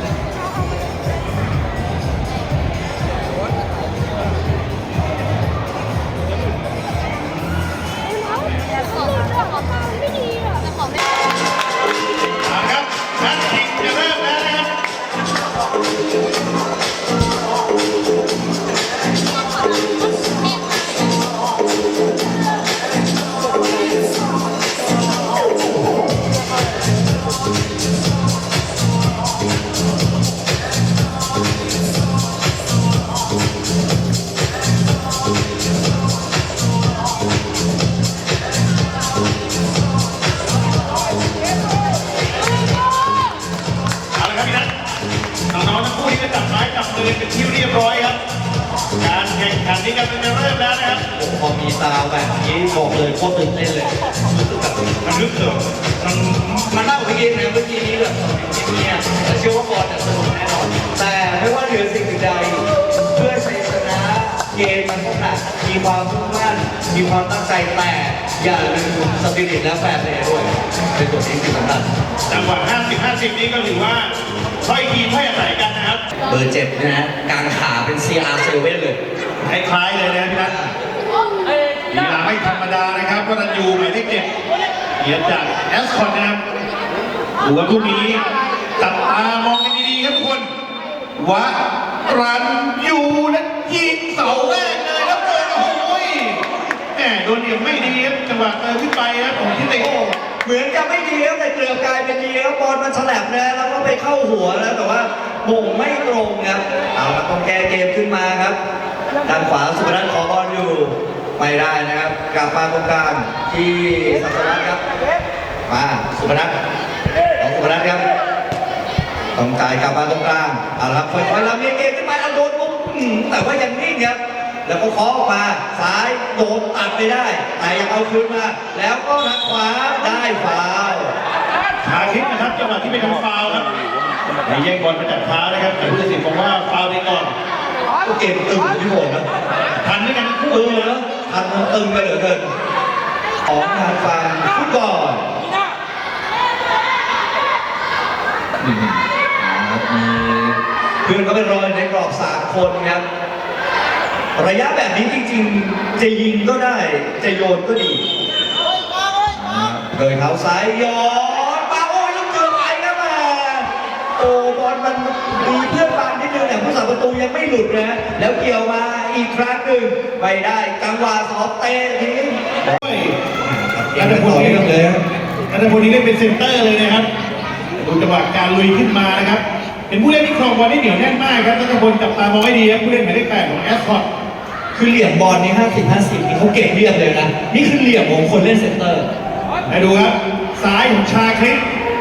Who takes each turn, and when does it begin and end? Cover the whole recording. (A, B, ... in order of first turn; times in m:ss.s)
0:12.4-0:14.7 A
0:44.1-0:44.7 A
0:45.5-0:48.2 A
0:49.0-0:51.0 A
0:51.1-1:11.9 B
1:12.3-1:14.1 A
1:14.6-1:16.0 A
1:16.3-1:19.0 B
1:19.4-1:20.6 A
1:20.3-1:20.7 B
1:21.9-1:24.3 A
1:25.0-1:26.4 A
1:27.4-1:28.2 A
1:28.8-1:30.5 A
1:31.2-1:39.9 A
1:39.7-1:48.6 B
1:49.2-1:54.8 B
1:55.7-1:56.5 B
1:57.4-1:58.0 B
1:59.3-2:11.1 B
2:11.8-2:13.8 A
2:14.4-2:17.3 A
2:18.0-2:19.2 B
2:19.8-2:20.9 A
2:20.5-2:22.5 B
2:23.4-2:25.2 B
2:28.6-2:33.0 B
2:34.3-2:38.0 B
2:39.3-2:52.8 B
2:52.8-2:53.2 A
2:53.4-2:55.0 B
2:53.9-2:54.7 A
2:55.5-2:57.1 A
2:57.8-3:04.0 A
3:04.7-3:09.1 B
3:09.7-3:11.6 A